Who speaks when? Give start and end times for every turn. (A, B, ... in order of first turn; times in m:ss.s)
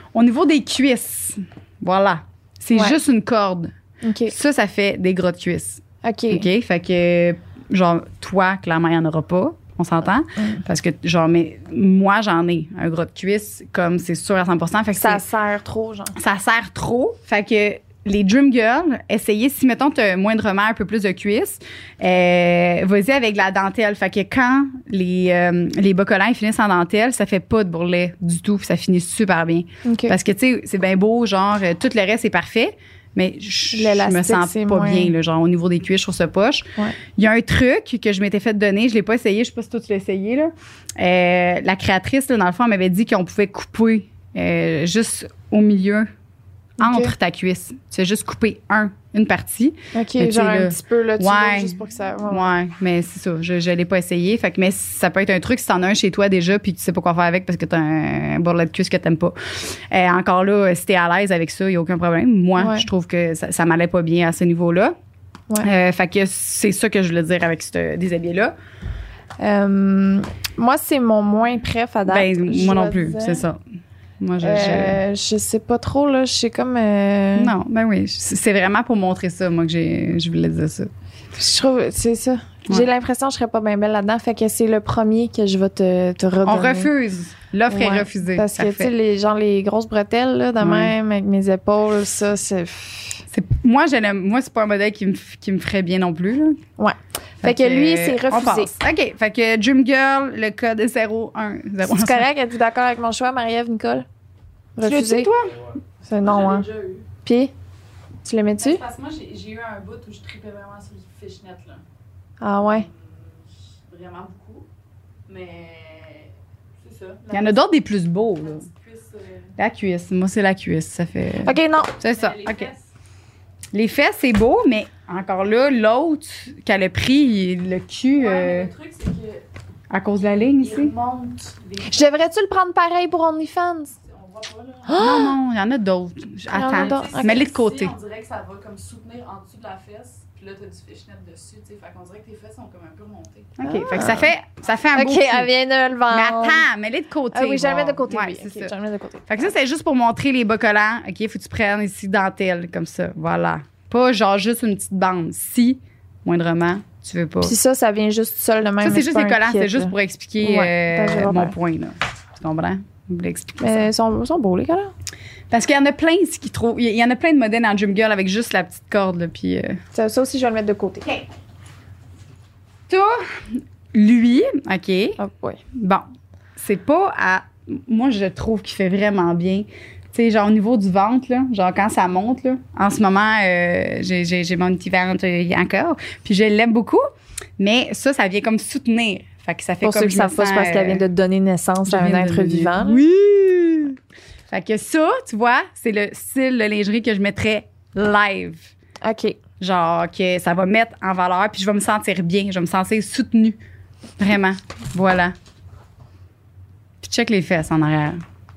0:00.1-0:03.7 A
0:04.0-0:04.3 B
0:04.3-0:15.2 A
0:06.0-0:06.5 B
0:15.0-0:16.2 B
0:16.2-0:46.1 A
0:29.8-0:30.2 B
0:33.7-0:35.1 B
0:46.8-0:47.1 B
0:46.8-1:05.0 A
0:49.9-0:52.5 B
1:02.6-1:02.9 B
1:05.6-1:08.5 A
1:09.4-1:13.4 B
1:12.1-1:13.6 A
1:14.2-1:15.0 A
1:14.4-1:17.5 B
1:17.4-1:20.9 A
1:21.4-1:26.9 B
1:26.4-1:28.9 A
1:27.7-1:33.2 B
1:30.6-1:30.9 A
1:33.3-1:36.6 A
1:36.8-1:38.7 B
1:37.4-1:42.3 A
1:41.8-1:44.1 B
1:44.8-1:45.3 B
1:44.8-1:45.5 A
1:46.1-1:46.7 B
1:46.2-1:47.1 C
1:47.2-1:47.5 B
1:48.2-1:48.8 B
1:48.6-1:51.8 C
1:52.4-1:52.9 B
1:52.6-1:54.7 C
1:55.3-1:57.6 C
1:57.3-1:58.7 A
1:58.4-1:59.5 C
1:59.6-2:02.7 A
2:01.4-2:02.0 B
2:02.0-2:02.9 C
2:03.7-2:08.7 A
2:08.2-2:09.4 C
2:09.9-2:10.9 A
2:10.6-2:12.1 C
2:11.9-2:13.9 B
2:14.0-2:15.0 C
2:14.9-2:15.4 B
2:15.0-2:18.0 A
2:16.5-2:17.4 B
2:16.7-2:23.6 C
2:23.6-2:25.5 A
2:23.6-2:24.3 B
2:24.9-2:26.7 B
2:26.1-2:28.8 A
2:27.3-2:29.4 B
2:29.3-2:37.6 A
2:37.4-2:41.5 B
2:38.8-2:43.9 A
2:43.6-2:44.9 B
2:45.5-2:49.8 A
2:49.9-2:51.2 B
2:52.9-2:55.2 A
2:55.2-2:55.6 B
2:55.7-3:07.0 A
3:07.6-3:11.0 A
3:09.8-3:13.0 B
3:11.9-3:14.0 A
3:14.5-3:18.7 A
3:19.0-3:19.4 B
3:19.6-3:23.6 A
3:24.2-3:25.4 A
3:27.0-3:28.2 A